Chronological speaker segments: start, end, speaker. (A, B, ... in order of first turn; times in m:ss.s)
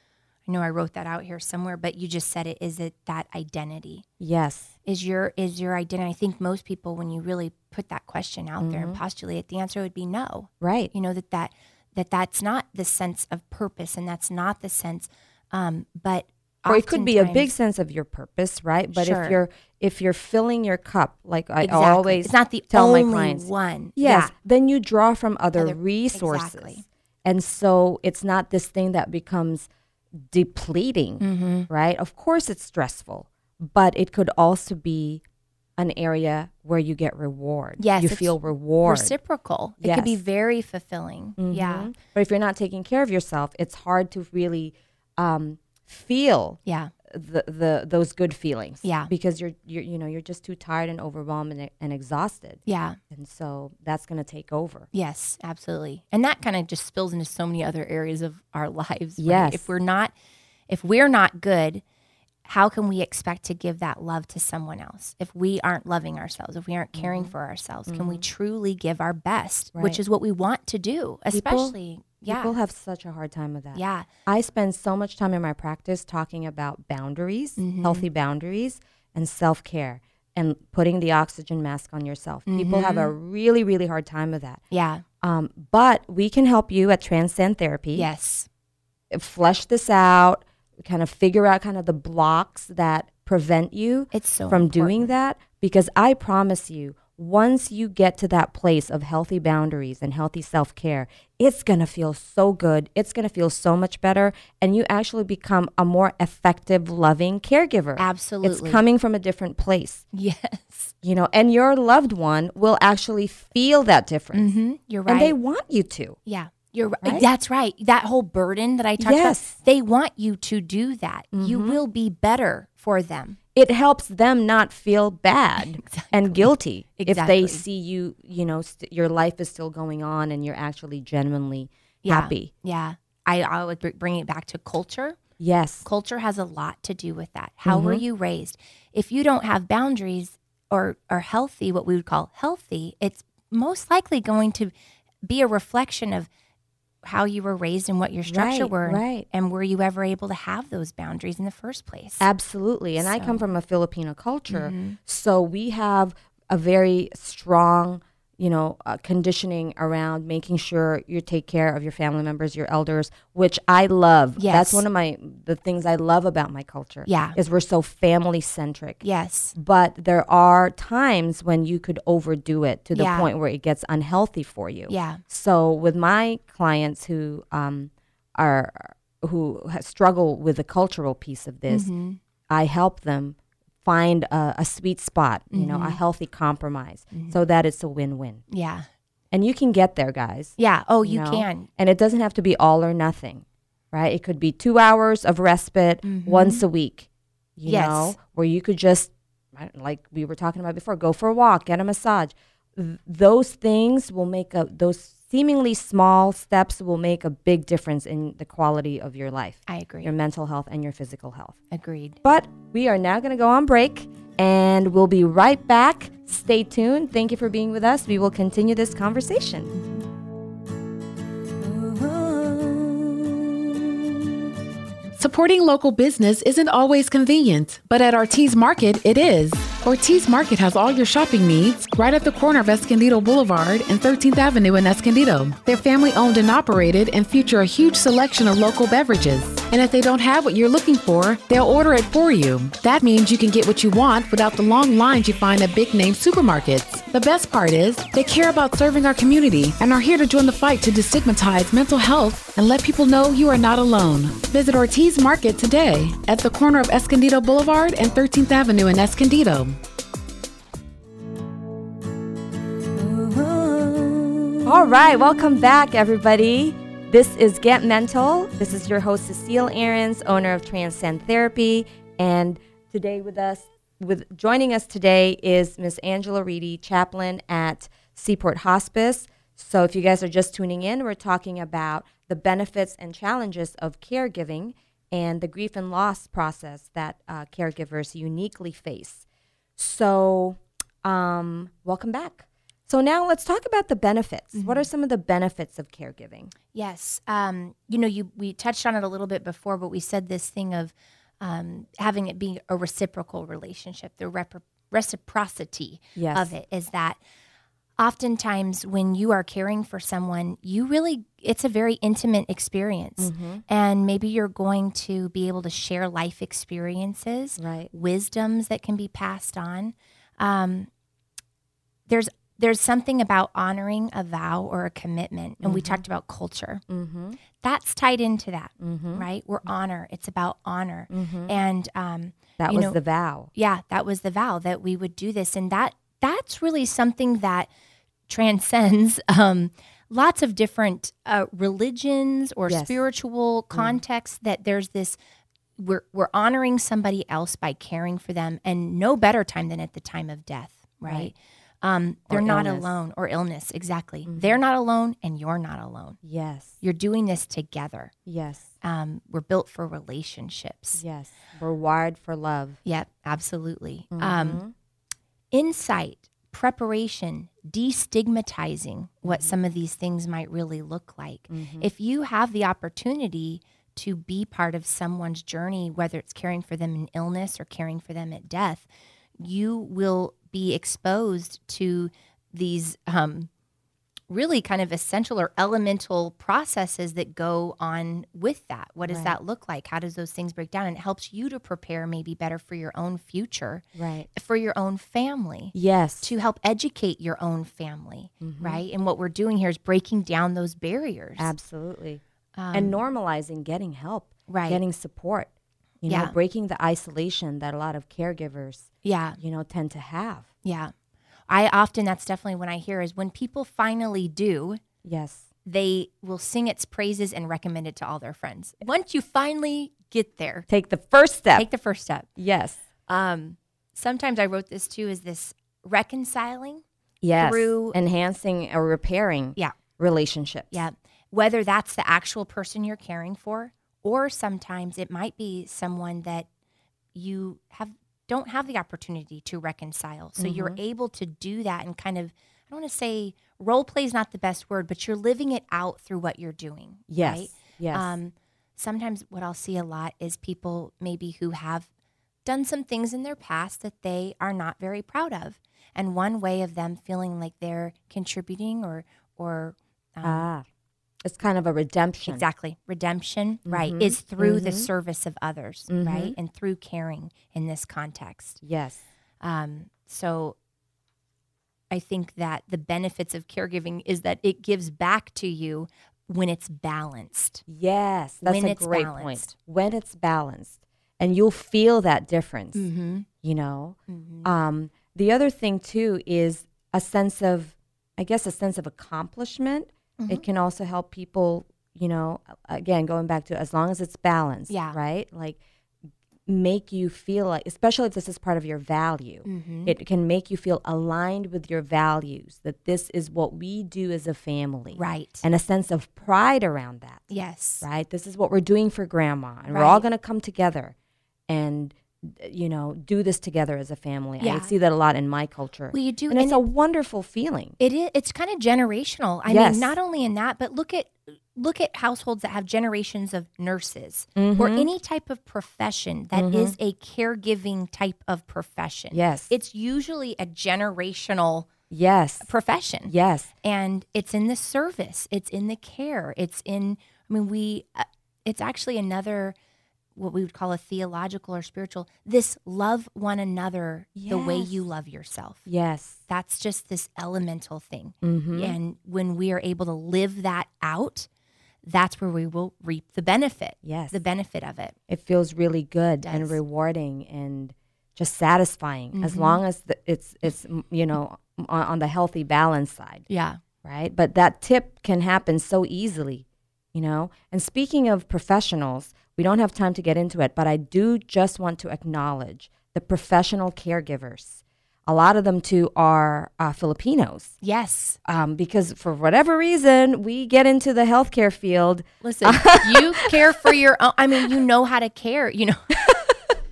0:00.5-0:04.0 A
0:04.2-0:04.7 B
0:04.8-0:17.5 A
0:08.6-0:09.0 B
0:10.6-0:10.9 B
0:16.6-0:29.7 B
0:18.9-0:19.4 A
0:21.6-0:24.3 A
0:25.6-0:26.8 A
0:30.3-0:35.2 B
0:31.2-0:31.7 A
0:35.8-0:39.2 B
0:37.8-0:41.9 A
0:39.8-0:40.2 B
0:41.4-0:54.9 B
0:46.6-0:46.9 A
0:48.8-0:49.1 A
0:52.6-0:53.0 A
0:54.9-1:00.1 A
0:59.2-0:59.7 B
1:00.7-1:01.8 A
1:02.4-1:12.6 A
1:06.9-1:07.3 B
1:07.9-1:08.2 B
1:09.7-1:10.0 B
1:11.3-1:24.6 B
1:13.7-1:14.1 A
1:17.6-1:18.1 A
1:22.5-1:23.1 A
1:24.7-1:25.0 A
1:25.2-1:28.1 B
1:27.9-1:28.5 A
1:29.1-1:50.0 B
1:34.1-1:35.1 A
1:48.0-1:48.8 A
1:50.1-1:50.9 A
1:51.0-1:54.5 B
1:54.3-1:55.4 A
1:55.1-1:56.2 B
1:56.2-2:03.4 A
1:57.0-1:57.3 B
1:59.0-1:59.6 B
2:01.3-2:01.8 B
2:03.5-2:12.5 B
2:05.8-2:07.6 A
2:12.0-2:15.2 A
2:15.4-2:15.8 B
2:15.8-2:24.7 A
2:17.6-2:18.0 B
2:25.2-2:26.3 A
2:27.0-2:32.3 A
2:28.3-2:29.2 B
2:32.2-2:49.0 B
2:33.0-2:33.5 A
2:34.5-2:35.0 A
2:44.4-2:44.8 A
2:47.0-2:47.4 A
2:49.0-2:49.5 A
2:49.5-3:01.9 B
2:52.9-2:53.3 A
2:54.9-2:55.2 A
3:01.7-3:02.2 A
3:02.5-3:08.4 B
3:05.5-3:06.0 A
3:07.1-3:07.4 A
3:08.5-3:08.9 A
3:09.3-3:31.6 B
3:10.6-3:11.7 A
3:16.0-3:16.6 A
3:17.6-3:18.2 A
3:29.7-3:30.1 A
3:31.7-3:32.2 A
3:32.2-3:39.7 B
3:45.2-4:19.8 C
4:24.6-4:49.2 B
4:49.8-4:56.5 B
4:54.5-4:54.8 A
4:56.7-5:07.2 A
5:06.2-5:06.5 B
5:08.0-5:20.9 A
5:13.2-5:13.6 B
5:17.6-5:17.9 B
5:22.1-5:26.8 A
5:25.6-5:26.0 B
5:26.9-5:27.4 B
5:27.6-5:33.0 A
5:28.8-5:29.2 B
5:31.1-5:31.6 B
5:32.6-5:33.5 B
5:33.5-5:37.7 A
5:38.3-5:45.2 A
5:42.7-5:43.0 B
5:43.7-5:44.0 B
5:45.8-5:56.2 A
5:51.0-5:51.3 B
5:52.3-5:52.9 B
5:54.3-5:54.6 B
5:56.2-5:56.8 B
5:56.8-5:58.1 A
5:58.2-5:58.7 B
5:58.8-6:01.0 A
6:01.0-6:02.8 B
6:02.8-6:04.6 A
6:04.1-6:04.7 B
6:05.5-6:18.9 A
6:09.2-6:09.5 B
6:11.5-6:11.9 B
6:19.4-6:23.5 A
6:24.3-6:41.5 A
6:29.0-6:29.4 B
6:34.0-6:34.3 B
6:35.7-6:36.3 B
6:38.4-6:38.8 B
6:41.4-6:42.2 B
6:42.6-6:43.0 A
6:42.7-6:45.5 B
6:44.5-6:44.8 A
6:46.0-6:50.5 B
6:46.0-6:46.3 A
6:49.0-6:49.4 A
6:50.6-6:50.9 A
6:51.5-6:54.8 A
6:55.0-6:55.4 B
6:55.6-7:00.6 A
7:00.7-7:01.7 B
7:01.5-7:02.3 A
7:02.4-7:02.8 B
7:03.1-7:06.8 A
7:07.2-7:10.8 B
7:07.3-7:08.0 A
7:10.7-7:16.5 A
7:17.1-7:31.9 A
7:20.4-7:20.8 B
7:27.1-7:28.2 B
7:32.4-7:40.5 A
7:40.2-7:40.6 B
7:41.2-7:42.4 B
7:42.3-7:48.6 A
7:43.6-7:44.9 B
7:45.9-7:46.3 B
7:48.6-7:49.0 B
7:49.4-7:50.6 A
7:51.9-7:57.6 A
7:57.7-8:02.9 B
7:58.4-7:59.5 A
8:02.7-8:03.3 A
8:03.4-8:15.6 B
8:04.1-8:04.5 A
8:10.2-8:10.4 A
8:14.7-8:15.0 A
8:16.5-8:27.3 B
8:19.4-8:19.9 A
8:24.9-8:25.4 A
8:27.3-8:27.8 A
8:27.8-8:30.9 B
8:29.7-8:30.1 A
8:31.5-8:37.8 B
8:34.4-8:34.7 A
8:35.9-8:36.6 A
8:37.8-8:51.7 A
8:39.4-8:40.0 B
8:44.4-8:44.9 B
8:46.3-8:46.8 B
8:49.1-8:49.5 B
8:51.9-8:52.5 B
8:52.4-8:59.5 A
8:53.1-8:53.5 B
9:00.2-9:05.7 A
9:04.2-9:04.8 B
9:05.7-9:06.2 B
9:06.3-9:11.3 A
9:08.2-9:08.8 B
9:11.8-9:14.9 A
9:13.8-9:14.2 B
9:15.1-9:23.3 B
9:16.2-9:16.6 A
9:19.1-9:19.6 A
9:23.3-9:23.6 A
9:23.8-9:37.5 B
9:37.6-9:38.2 A
9:38.2-9:43.7 B
9:42.2-9:46.1 A
9:46.0-9:46.4 B